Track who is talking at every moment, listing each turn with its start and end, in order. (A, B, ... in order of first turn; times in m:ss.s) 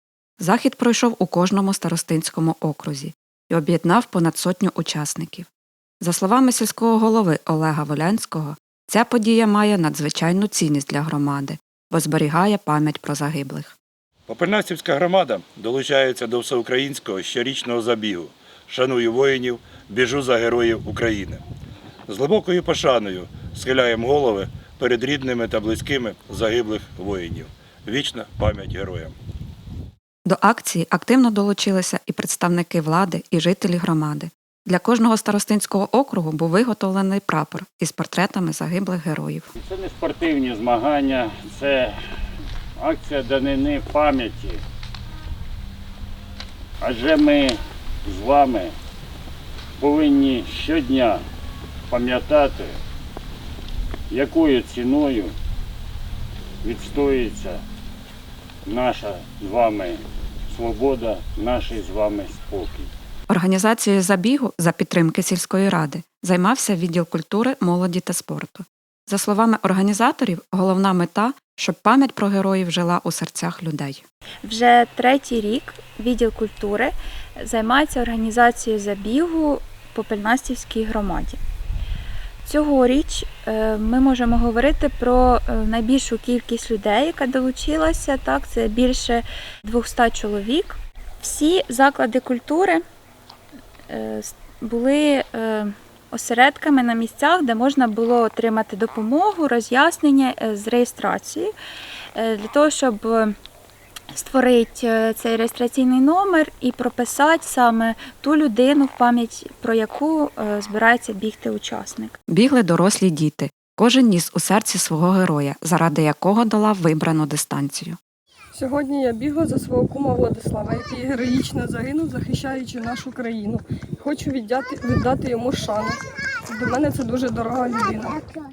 0:00.4-0:05.5 A
0:06.0-0:13.8 A
0:14.3-0:21.4 B
0:22.1-0:29.1 B
0:30.2-0:39.5 A
0:39.5-0:41.9 C
0:42.8-0:44.6 C
0:46.8-0:48.7 C
0:49.8-0:51.2 C
0:51.9-0:52.8 C
0:54.1-0:55.3 C
0:56.6-0:57.6 C
0:58.6-1:02.9 C
1:03.3-1:14.0 A
1:14.4-1:21.4 D
1:22.4-1:32.8 D
1:33.9-1:41.5 D
1:42.1-1:43.3 D
1:44.1-1:52.2 D
1:52.3-1:58.0 A
1:58.5-2:08.2 E